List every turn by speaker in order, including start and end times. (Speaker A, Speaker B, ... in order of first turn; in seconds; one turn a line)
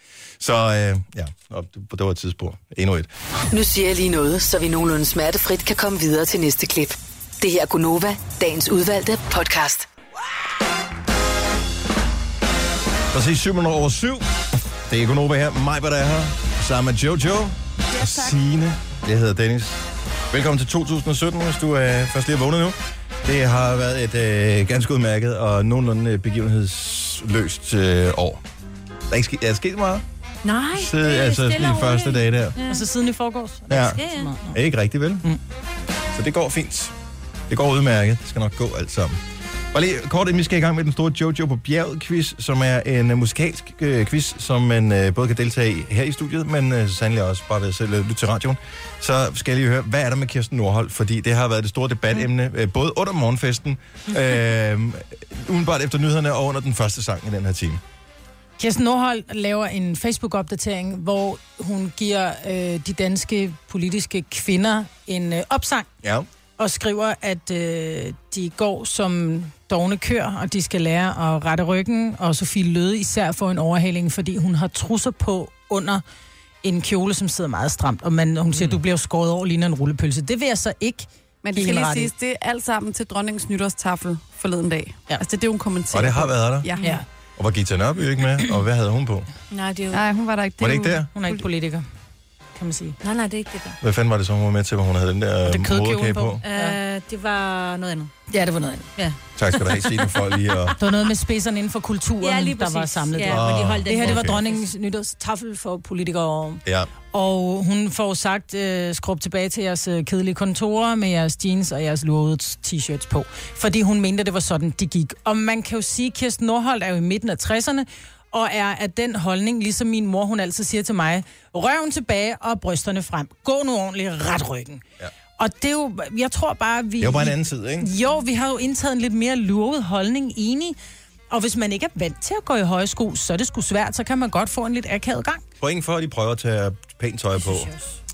Speaker A: 0.4-3.1
Speaker B: 3.5-9.8
Speaker A: 13.1-28.4
Speaker C: 17.9-18.4
Speaker A: 29.1-30.0
Speaker D: 30.4-32.9
Speaker A: 30.7-32.5
Speaker E: 32.7-34.6
Speaker A: 33.7-35.2
Speaker D: 34.0-34.3
Speaker A: 36.1-36.9
Speaker A: 37.5-39.2
Speaker A: 39.7-57.8
Speaker E: 58.6-65.9
Speaker E: 66.6-76.0
Speaker E: 76.6-82.1
Speaker C: 81.4-86.8
Speaker A: 85.9-86.7
Speaker A: 87.4-89.3
Speaker D: 89.5-90.0
Speaker C: 89.9-91.4
Speaker A: 90.6-91.1
Speaker E: 91.1-91.8
Speaker E: 92.5-93.0
Speaker D: 93.0-93.8
Speaker A: 93.8-96.4
Speaker E: 95.5-96.8
Speaker D: 96.4-98.1
Speaker E: 98.3-98.9
Speaker A: 99.3-100.7
Speaker E: 100.8-124.8
Speaker D: 102.2-104.6
Speaker A: 103.2-104.4
Speaker A: 106.6-106.9
Speaker E: 125.4-130.8
Speaker A: 127.0-127.9
Speaker E: 131.3-135.4
Speaker A: 135.6-137.7
Speaker D: 137.4-137.9